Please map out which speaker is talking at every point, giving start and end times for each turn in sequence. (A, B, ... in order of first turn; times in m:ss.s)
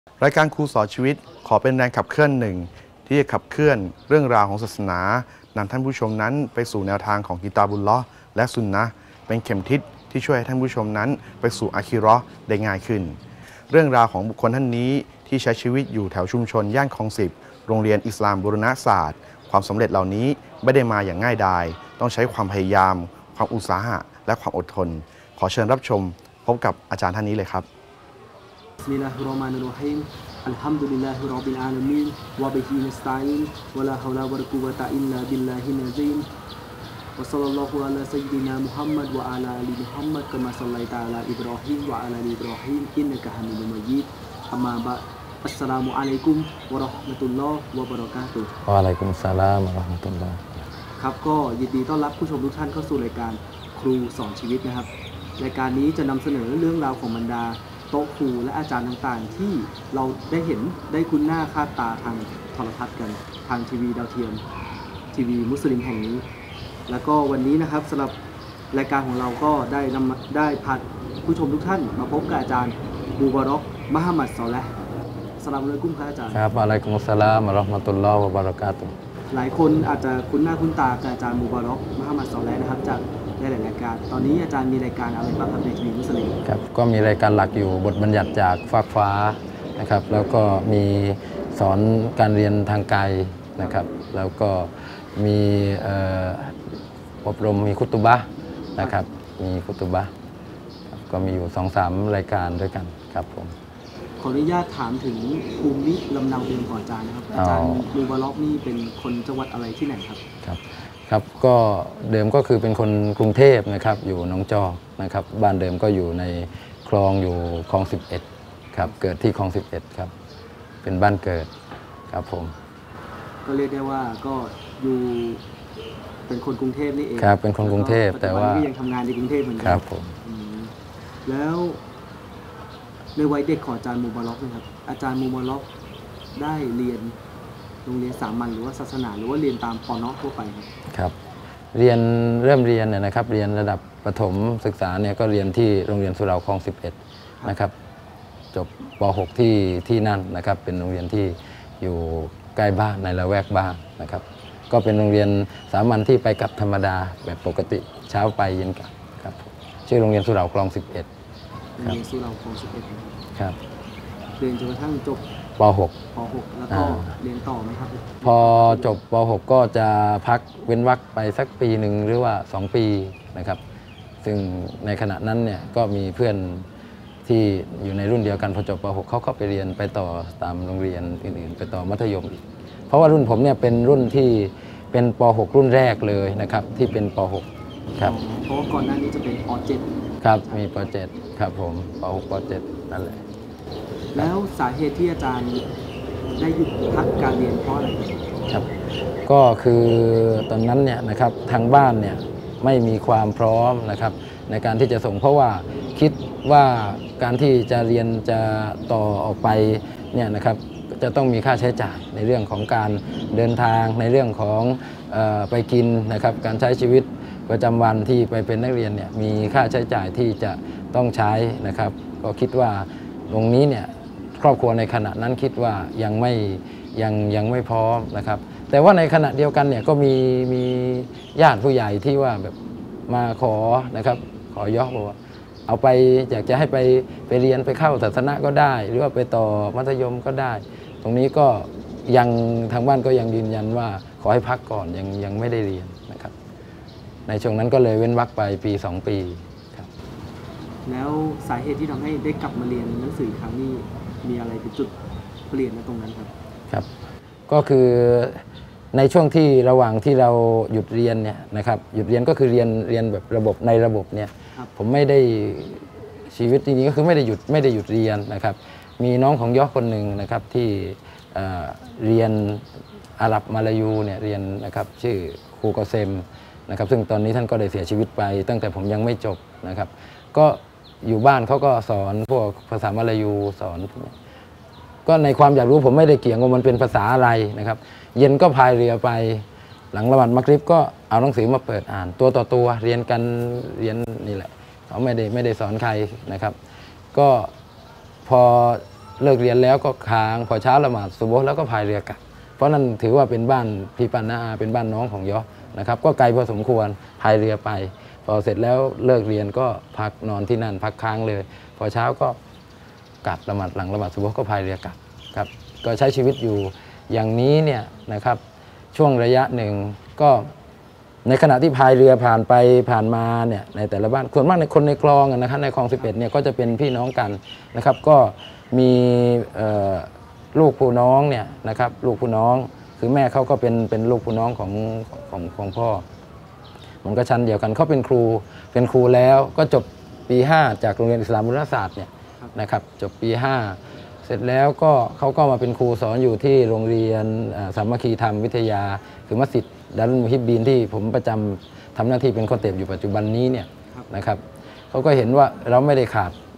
0:00.2-0:13.2 A
0:13.7-0:27.7 A
0:28.8-0:36.3 B
0:37.2-0:48.5 B
0:48.6-0:50.6 C
0:51.0-1:04.4 B
1:05.1-1:06.2 B
1:06.9-1:08.2 B
1:08.7-1:14.7 B
1:15.4-1:16.4 B
1:16.3-1:18.9 C
1:19.3-1:26.4 B
1:26.4-1:36.6 C
1:37.2-1:38.2 C
1:38.8-1:40.1 C
1:40.9-1:43.5 C
1:44.2-1:50.2 B
1:47.3-1:47.8 C
1:50.4-2:00.1 C
2:00.8-2:01.5 C
2:02.1-2:02.5 C
2:03.4-2:05.4 B
2:06.3-2:10.7 B
2:07.2-2:08.7 C
2:09.6-2:10.1 C
2:11.2-2:11.8 B
2:13.2-2:15.6 B
2:16.3-2:17.1 B
2:17.8-2:20.7 B
2:20.9-2:21.1 C
2:21.7-2:27.7 C
2:28.5-2:41.1 C
2:41.8-2:43.2 B
2:44.4-2:45.2 B
2:45.6-2:46.0 C
2:46.1-2:48.9 B
2:46.7-2:47.1 C
2:48.2-2:53.6 C
2:54.2-2:56.7 C
2:57.2-3:08.2 C
3:08.0-3:10.9 B
3:10.2-3:13.2 C
3:14.1-3:15.6 B
3:16.4-3:18.2 B
3:19.2-3:52.5 C
3:53.1-4:06.3 C
4:07.3-4:09.9 C
4:10.8-4:14.9 B
4:15.5-4:16.3 B
4:17.5-4:32.6 C
4:33.2-4:44.1 C
4:45.0-4:56.6 C
4:57.1-4:57.5 C
4:58.2-5:12.4 C
5:13.2-5:18.4 C
5:18.9-5:20.5 C
5:21.2-5:36.0 C
5:37.0-5:56.3 C